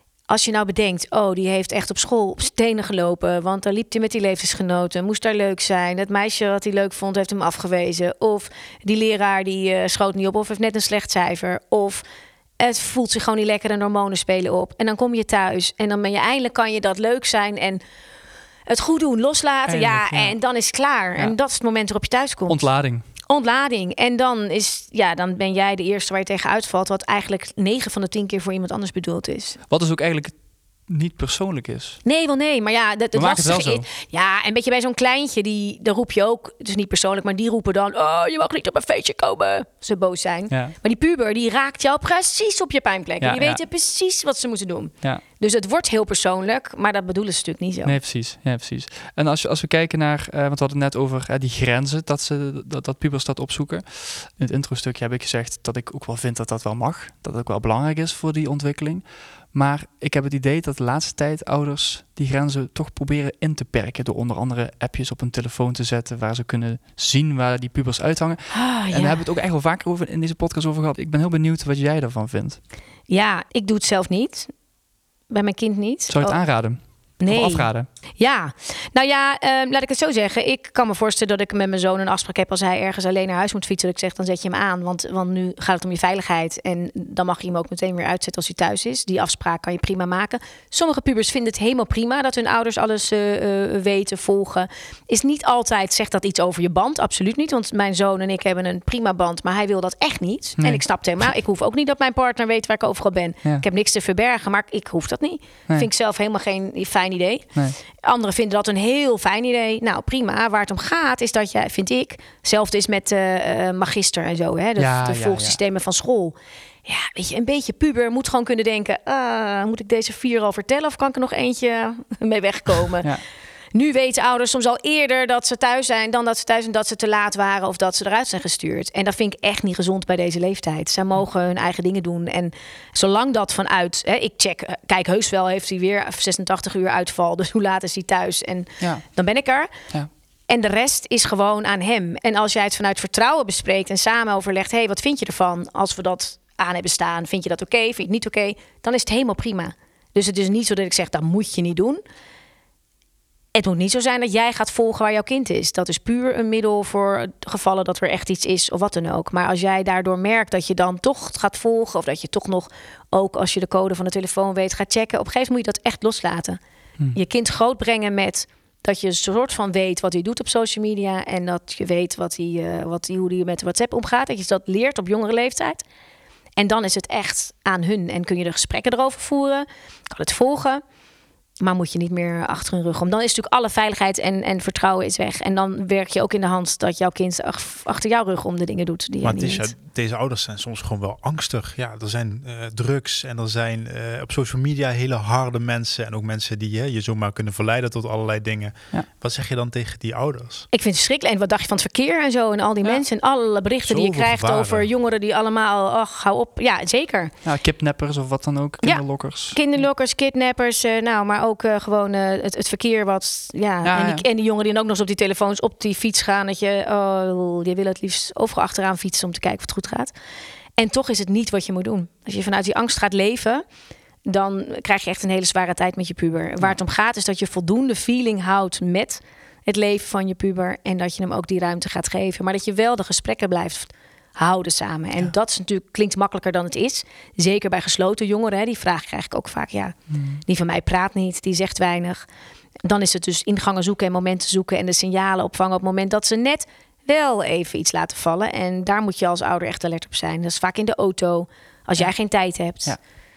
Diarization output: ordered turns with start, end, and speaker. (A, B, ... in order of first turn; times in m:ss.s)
0:00.3-0:12.0 A
0:12.6-0:17.8 A
0:18.7-0:22.7 A
0:19.6-0:20.3 B
0:22.5-0:23.0 B
0:23.2-0:29.6 A
0:29.7-0:32.0 B
0:32.0-0:48.0 A
0:33.1-0:33.8 B
0:40.5-0:40.7 B
0:43.2-0:43.6 B
0:47.8-1:12.6 B
1:08.5-1:09.2 A
1:13.1-1:14.5 A
1:15.3-1:16.6 A
1:16.1-1:17.9 B
1:17.2-1:56.3 A
1:54.8-1:55.6 B
1:56.8-2:03.1 A
2:03.7-2:19.7 A
2:20.5-2:32.0 A
2:33.5-2:46.6 A
2:47.1-2:55.8 A
2:56.6-3:00.8 A
3:01.6-3:09.7 A
3:09.2-3:20.7 C
3:20.7-3:27.3 A
3:23.9-3:24.9 C
3:27.4-3:29.6 B
3:28.8-3:40.1 A
3:33.8-3:34.2 B
3:40.8-3:43.6 A
3:44.2-4:02.2 A
4:00.1-4:00.4 B
4:02.8-4:12.9 A